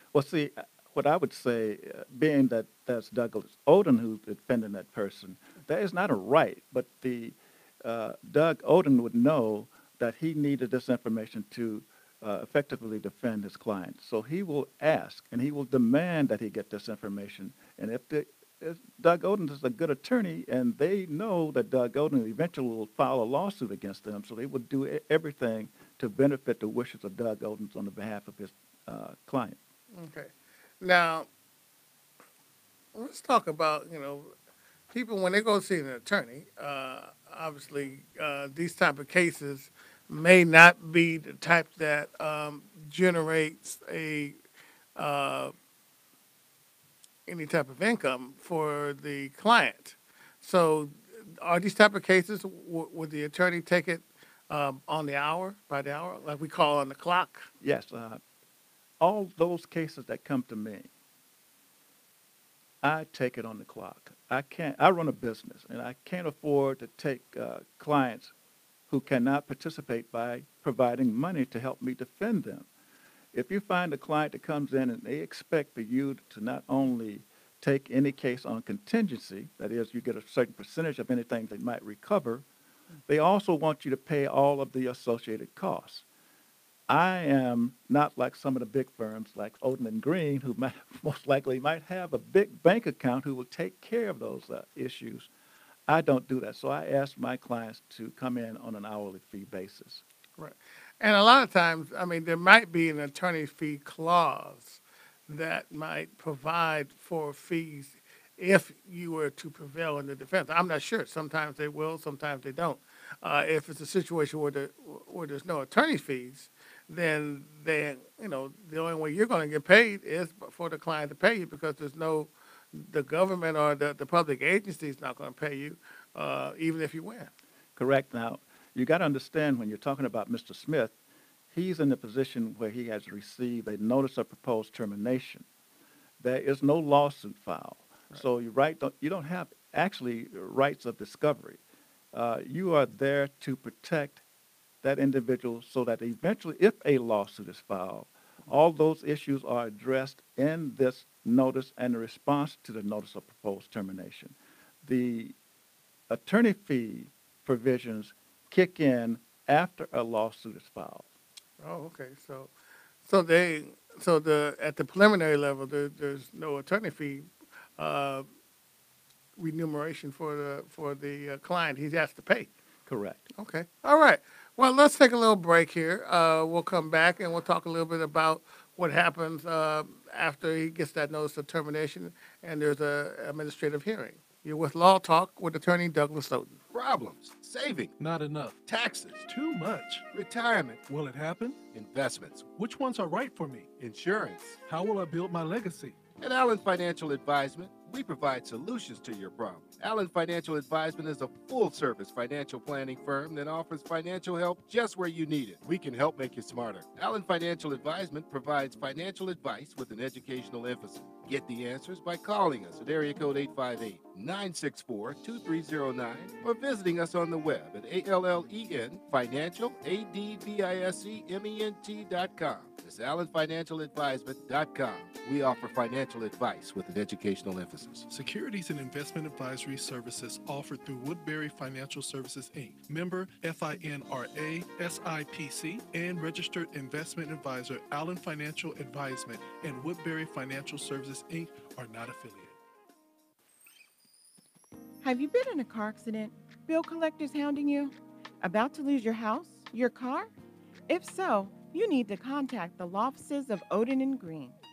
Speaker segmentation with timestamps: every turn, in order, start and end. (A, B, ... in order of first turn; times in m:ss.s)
0:00.1-0:29.6 A
0:29.9-0:31.3 B
0:32.9-0:34.3 B
0:34.9-0:44.4 B
0:45.0-0:45.5 B
0:47.3-0:57.5 B
0:57.6-0:58.2 A
0:59.0-1:00.9 A
1:02.8-1:08.3 A
1:08.9-1:12.7 A
1:13.3-1:22.4 A
1:23.1-1:26.0 A
1:26.9-1:35.3 A
1:35.9-1:40.0 A
1:40.4-2:07.3 B
2:07.8-2:10.9 A
2:11.5-2:15.4 A
2:16.2-2:21.6 A
2:22.1-2:24.2 A
2:24.8-2:35.3 A
2:36.1-2:41.1 A
2:41.6-2:42.5 B
2:43.0-2:48.3 B
2:49.4-2:52.5 B
2:52.9-2:53.2 A
2:53.4-3:06.6 B
3:06.7-3:07.9 C
3:08.0-3:08.6 D
3:08.7-3:09.2 C
3:09.1-3:10.0 D
3:10.1-3:10.8 C
3:10.9-3:11.6 D
3:11.7-3:12.5 C
3:12.5-3:13.7 D
3:13.8-3:14.6 C
3:14.6-3:16.0 D
3:16.2-3:48.1 C
3:48.1-4:02.6 D
4:05.0-4:10.3 E
4:10.9-4:14.6 E